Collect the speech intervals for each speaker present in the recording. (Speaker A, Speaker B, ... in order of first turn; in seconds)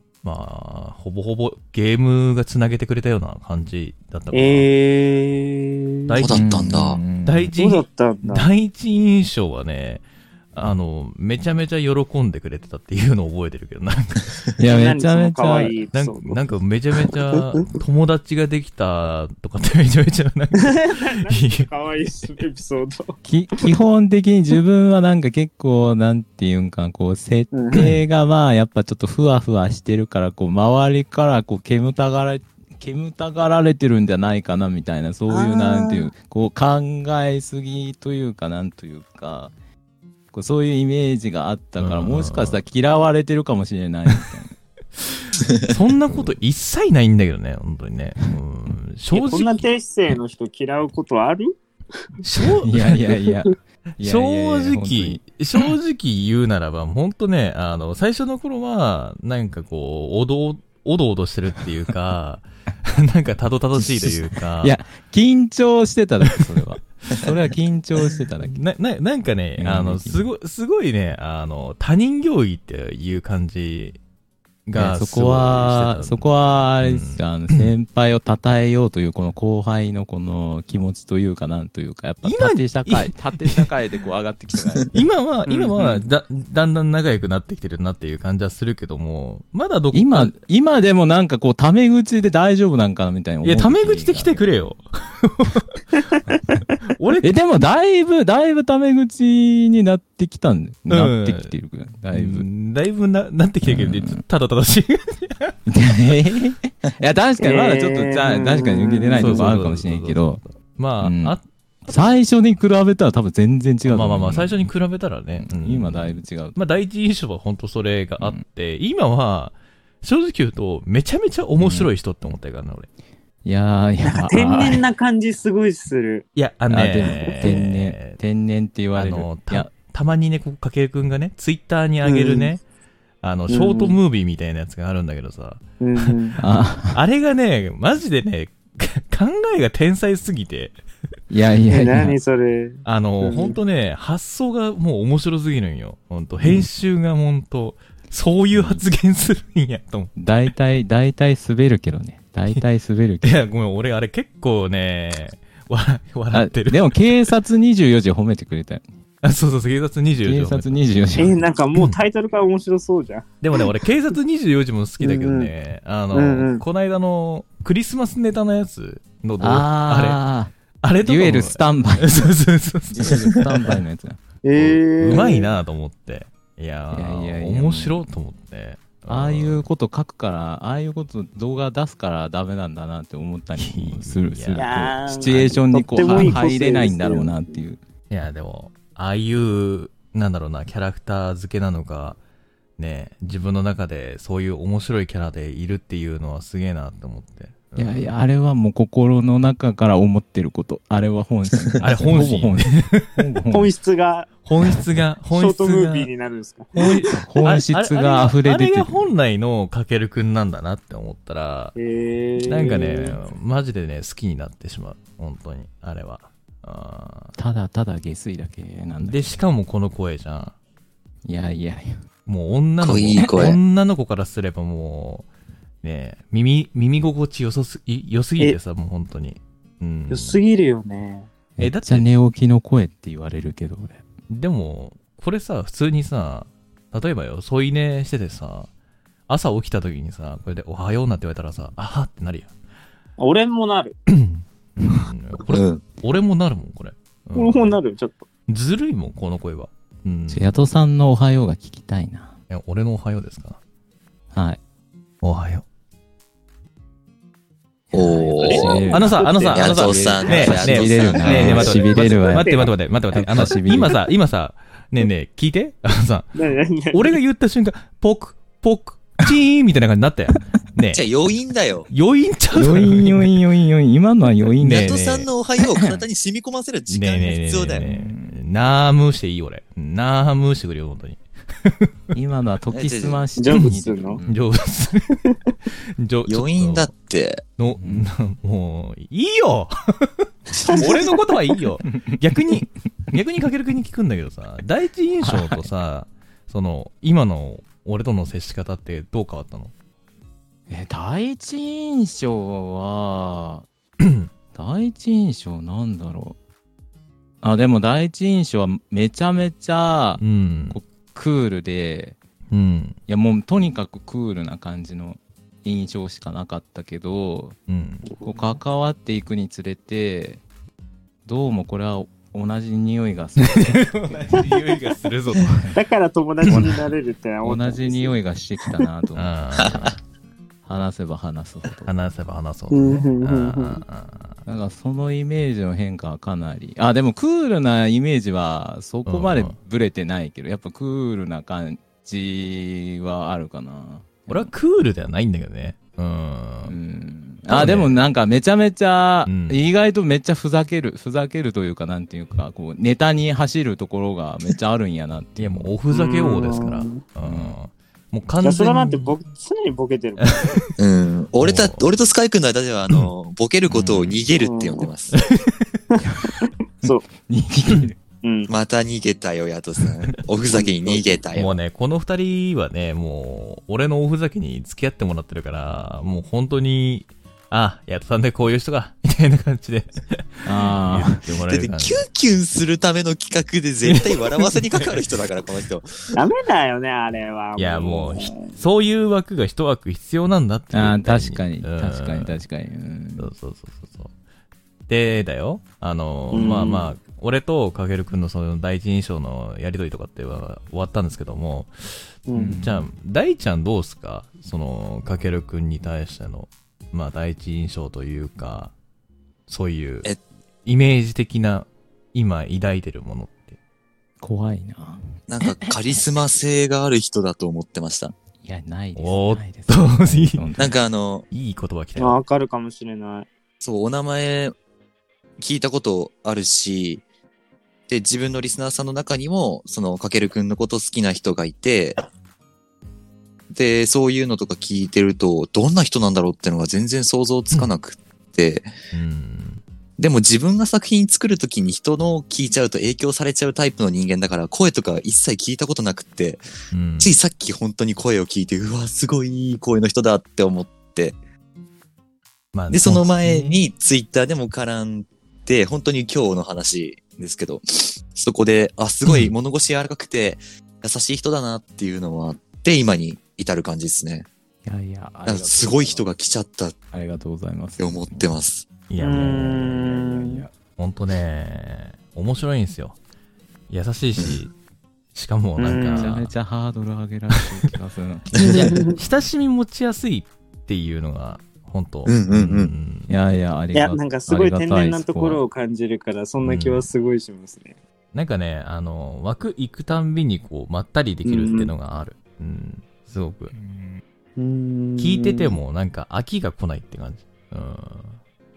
Speaker A: 0.2-4.7, 6.1-6.5, 7.2-14.4, 15.9-21.7, 27.7-28.0, 41.8-42.6, 45.0-49.6, 52.2-53.1, 54.0-64.8, 68.5-74.0, 74.7-77.7, 82.2-83.7, 84.9-90.3, 93.4-95.8, 96.9-97.3, 100.9-101.5, 102.1-105.5, 109.2-111.4, 113.8-122.9, 126.3-128.2, 128.9-132.6, 133.2-136.4, 136.9-140.7, 142.8-150.1, 153.2-157.3, 159.2-160.8, 163.4-170.2, 170.8-173.4, 174.6-179.6, 183.6-185.5, 186.1-186.4, 188.1-192.2, 192.8-198.1, 201.8-203.1, 204.4-206.1, 206.7-211.7, 212.5-217.3, 219.0-220.5, 222.2-225.2, 225.8-230.4, 231.6-232.1, 234.3-238.7, 239.3-242.5, 244.1-247.8, 248.5-250.5, 252.5-253.6, 255.2-255.6, 258.9-266.3, 266.9-271.0, 271.9-273.4, 274.6-275.3, 276.9-281.9, 284.2-285.2, 286.0-286.9, 287.6-299.7, 304.0-304.3, 310.2-310.8, 312.5-313.0, 317.7-318.1, 323.4-325.7, 329.1-329.9, 331.9-334.4, 339.1-339.6, 344.3-346.7, 347.5-348.0, 349.2-349.6, 355.4-359.1, 360.2-360.7, 361.4-361.9, 363.7-364.1, 365.1-365.8, 371.3-382.1, 383.8-385.0, 387.6-392.4, 393.2-394.1, 394.9-401.7, 402.6-408.7, 409.5-410.1, 410.6-413.5, 418.9-420.5, 421.3-422.2, 438.9-439.6, 446.7-447.1, 452.5-453.1, 459.1-459.3, 468.9-470.1, 470.8-472.9, 473.7-474.5, 475.1-476.3, 478.4-483.1, 486.4-486.9, 488.1-493.5, 495.0-498.2
Speaker B: 4.3-6.2, 7.6-8.5, 14.6-16.4, 20.6-23.7, 27.5-27.9, 35.3-36.1, 49.1-51.5, 85.5-86.0, 107.4-109.5, 124.0-126.3, 132.0-132.5, 133.5-134.0, 135.8-136.4, 141.7-143.6, 161.2-163.6, 165.0-165.5, 166.1-166.6, 174.4-175.5, 184.6-187.5, 203.5-204.3, 205.3-207.1, 211.8-213.2, 230.1-231.3, 243.2-244.0, 247.3-248.2, 258.4-259.6, 261.1-262.7, 266.3-267.2, 283.4-284.2, 290.5-291.2, 318.1-318.5, 325.7-328.2, 332.7-333.8, 355.9-357.0, 358.4-360.6, 364.4-364.9, 366.4-367.0, 368.2-368.5, 370.5-371.1, 386.1-388.6, 396.3-396.9, 402.3-402.6, 422.0-423.3, 469.0-470.5, 475.6-476.1, 478.4-479.0, 483.7-487.8, 491.2-491.7, 494.4-495.6
Speaker C: 6.2-7.0, 222.8-223.6, 245.5-245.8, 257.9-258.8, 259.5-261.9, 270.9-271.9, 274.6-277.9, 282.7-283.2, 286.3-287.4, 360.8-365.2, 368.5-371.6, 381.5-386.1, 415.3-418.1, 420.6-421.2, 423.6-424.5, 425.4-427.0, 427.9-432.0, 433.5-438.7, 440.0-446.4, 447.0-451.2, 452.7-464.3, 465.2-466.8, 467.8-468.7, 478.4-478.6, 482.1-482.7
Speaker D: 6.3-7.5, 14.6-15.8, 23.2-39.5, 40.3-44.5, 52.6-55.2, 63.8-68.6, 69.6-70.2, 74.8-85.0, 89.9-94.4, 96.3-96.6, 97.2-102.5, 103.6-104.2, 105.7-110.4, 111.0-111.3, 111.9-114.5, 115.4-116.5, 121.6-121.9, 123.4-124.8, 126.7-129.7, 136.4-137.0, 141.3-142.2, 148.5-148.8, 150.2-153.4, 156.3-158.8, 160.2-161.4, 169.4-170.5, 171.0-172.1, 172.9-174.2, 176.9-178.0, 179.1-187.8, 197.8-203.7, 207.2-209.1, 217.4-219.4, 221.3-221.9, 231.6-234.0, 250.3-252.3, 254.3-254.6, 257.9-264.0, 272.5-275.0, 275.6-276.0, 277.7-278.4, 282.1-284.4, 287.8-288.1, 291.9-292.2, 295.2-295.7, 300.7-303.7, 304.5-306.4, 307.4-312.2, 313.1-317.6, 318.2-320.4, 321.2-324.4, 325.4-325.8, 326.5-326.8, 327.4-329.9, 330.6-331.9, 334.4-344.5, 346.7-355.7, 357.2-357.6, 366.9-368.0, 380.4-381.3, 390.7-393.3, 402.3-402.9, 414.2-416.0, 418.4-420.8, 453.2-453.5, 464.6-466.1, 466.9-468.3, 470.2-470.5, 475.9-478.8, 483.1-485.4, 493.5-494.0